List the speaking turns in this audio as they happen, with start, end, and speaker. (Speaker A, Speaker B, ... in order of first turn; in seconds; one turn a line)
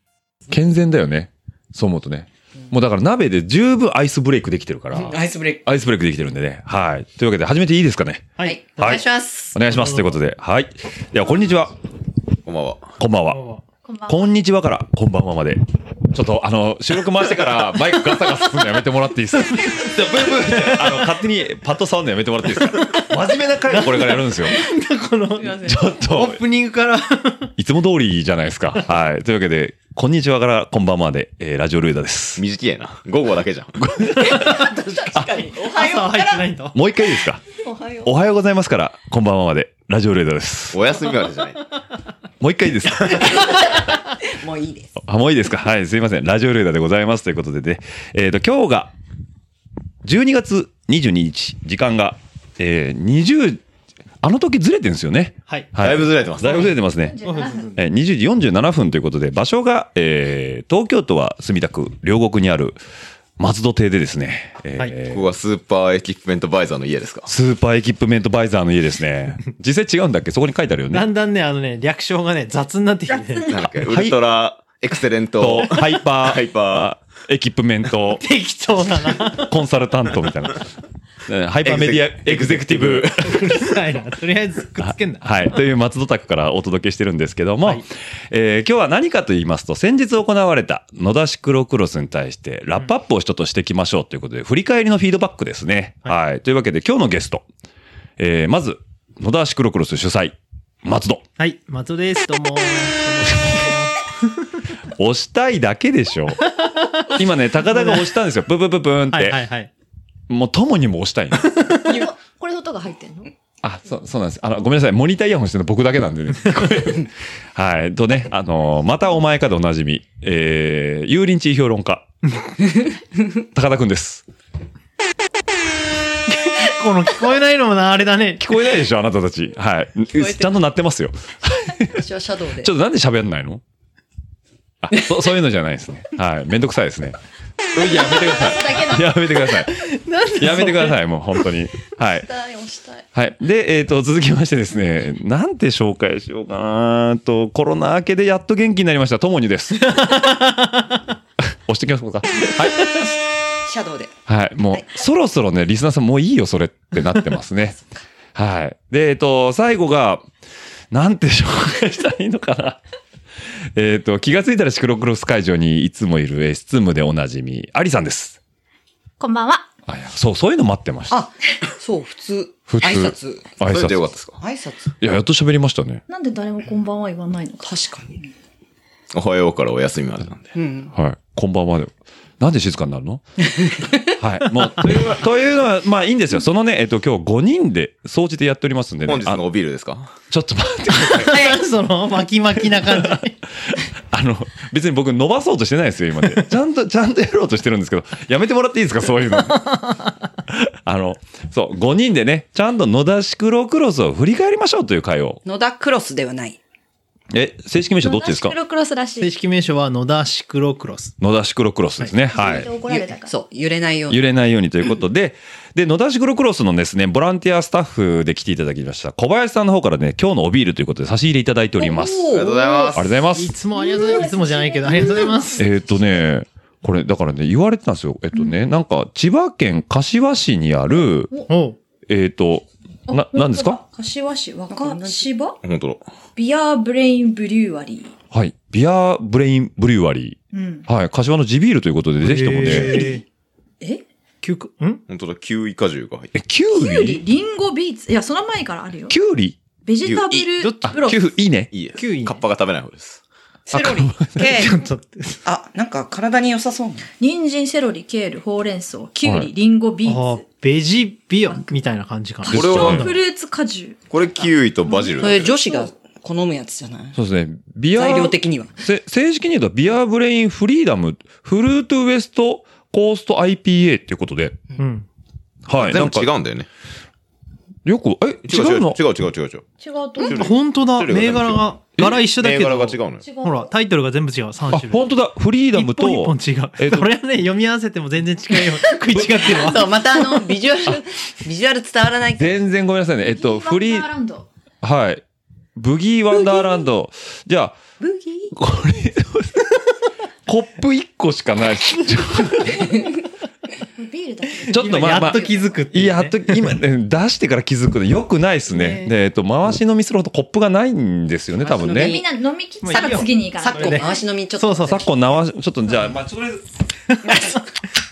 Speaker A: 0.5-9.0
Speaker B: 5.0-5.6
Speaker C: 8.4-9.0
Speaker B: 8.4-9.6
Speaker A: 9.5-11.8
Speaker C: 9.7-10.0
Speaker D: 12.4-12.9
Speaker A: 13.0-13.4
Speaker C: 13.3-13.6
Speaker E: 13.8-14.3
Speaker A: 14.1-24.6
Speaker C: 19.4-21.1
Speaker C: 23.7-27.5
Speaker A: 25.5-26.4
Speaker A: 27.6-32.4
Speaker D: 32.4-33.8
Speaker A: 33.8-35.5
Speaker C: 34.1-36.8
Speaker B: 34.3-36.5
Speaker A: 36.7-37.4
Speaker B: 37.5-38.1
Speaker A: 38.0-40.8
Speaker D: 40.7-41.6
Speaker A: 42.4-43.6
Speaker B: 43.1-44.9
Speaker A: 45.0-48.9
Speaker A: 50.0-53.6
Speaker A: 54.2-62.8
Speaker D: 55.8-56.8
Speaker E: 57.0-57.7
Speaker C: 57.2-57.8
Speaker A: 63.4-65.2
Speaker D: 65.1-67.3
Speaker A: 67.3-71.0
Speaker C: 70.9-73.5
Speaker D: 73.5-76.9
Speaker A: 73.7-74.2
Speaker A: 75.4-78.2
Speaker C: 78.2-79.6
Speaker A: 79.2-80.7
Speaker A: 81.3-83.4
Speaker D: 81.6-83.5
Speaker C: 83.2-85.5
Speaker A: 84.8-97.4
Speaker A: 98.2-101.2
Speaker C: 101.4-104.5
Speaker A: 105.0-106.5
Speaker C: 106.6-108.1
Speaker A: 107.0-109.4
Speaker C: 109.1-109.7
Speaker A: 110.3-111.5
Speaker C: 111.5-111.8
Speaker E: 111.8-113.3
Speaker A: 113.6-122.1
Speaker A: 123.4-124.2
Speaker C: 126.3-128.4
Speaker A: 128.4-132.0
Speaker B: 130.2-130.5
Speaker B: 131.8-132.7
Speaker A: 132.6-133.6
Speaker A: 134.8-137.2
Speaker A: 137.7-139.7
Speaker C: 139.7-141.0
Speaker A: 140.3-142.3
Speaker B: 142.2-143.0
Speaker A: 143.1-150.2
Speaker C: 149.8-151.0
Speaker A: 151.4-152.8
Speaker B: 152.8-153.1
Speaker B: 153.6-154.1
Speaker A: 154.3-157.8
Speaker A: 158.3-160.2
Speaker A: 160.9-162.8
Speaker A: 163.7-168.4
Speaker E: 169.2-169.7
Speaker A: 169.9-171.2
Speaker B: 171.1-173.5
Speaker A: 172.7-174.0
Speaker D: 173.6-174.4
Speaker B: 174.4-174.9
Speaker A: 175.0-176.0
Speaker E: 176.1-177.7
Speaker B: 177.6-178.2
Speaker D: 179.1-180.5
Speaker B: 180.5-180.9
Speaker A: 180.9-183.2
Speaker B: 183.6-184.1
Speaker A: 184.2-189.4
Speaker D: 189.0-190.1
Speaker A: 190.3-191.5
Speaker C: 191.1-193.4
Speaker B: 191.3-191.6
Speaker A: 192.9-193.2
Speaker A: 193.9-199.7
Speaker C: 199.5-199.9
Speaker A: 200.5-205.4
Speaker B: 205.4-206.6
Speaker A: 207.3-208.5
Speaker E: 208.0-209.3
Speaker C: 209.2-211.1
Speaker A: 211.2-212.7
Speaker E: 212.3-213.3
Speaker B: 212.8-214.2
Speaker A: 214.1-222.3
Speaker B: 221.8-222.9
Speaker D: 222.3-223.1
Speaker A: 222.9-223.5
Speaker C: 223.3-225.6
Speaker E: 223.8-225.4
Speaker A: 225.6-231.3
Speaker C: 231.5-231.8
Speaker A: 232.1-233.8
Speaker E: 233.1-235.6
Speaker B: 234.7-235.3
Speaker D: 235.6-236.0
Speaker E: 236.3-238.1
Speaker A: 238.3-243.1
Speaker E: 240.5-240.8
Speaker C: 242.2-243.2
Speaker E: 242.7-243.1
Speaker C: 244.4-245.0
Speaker D: 245.1-246.3
Speaker A: 246.3-247.2
Speaker E: 246.7-249.1
Speaker A: 249.1-249.6
Speaker E: 249.8-251.2
Speaker D: 250.0-250.5
Speaker C: 250.6-250.9
Speaker A: 250.8-251.7
Speaker D: 251.7-253.2
Speaker C: 252.0-252.4
Speaker B: 253.7-254.8
Speaker A: 253.7-254.4
Speaker C: 254.4-255.4
Speaker B: 255.4-257.1
Speaker E: 257.2-260.4
Speaker A: 259.2-259.5
Speaker C: 260.0-263.0
Speaker D: 262.5-263.2
Speaker A: 262.5-263.1
Speaker E: 262.5-264.0
Speaker D: 264.1-265.6
Speaker E: 264.9-265.1
Speaker B: 265.2-267.1
Speaker A: 267.1-274.6
Speaker B: 267.9-268.7
Speaker C: 274.8-275.1
Speaker A: 275.7-276.3
Speaker D: 275.8-276.7
Speaker A: 277.9-279.0
Speaker D: 278.4-279.6
Speaker E: 279.8-280.4
Speaker D: 280.2-283.2
Speaker C: 280.3-285.1
Speaker E: 283.2-283.7
Speaker A: 284.7-287.1
Speaker C: 285.7-290.5
Speaker A: 289.1-289.4
Speaker B: 289.5-292.6
Speaker A: 292.4-294.1
Speaker E: 293.2-294.5
Speaker A: 294.8-295.2
Speaker A: 295.8-297.8
Speaker B: 298.0-298.5
Speaker A: 298.5-299.7
Speaker A: 300.4-303.1
Speaker E: 303.9-305.6
Speaker C: 304.7-306.4
Speaker A: 304.7-312.2
Speaker B: 311.6-312.2
Speaker E: 311.8-314.2
Speaker C: 312.8-315.0
Speaker B: 312.9-315.1
Speaker A: 314.9-316.6
Speaker C: 317.1-317.6
Speaker B: 317.2-317.6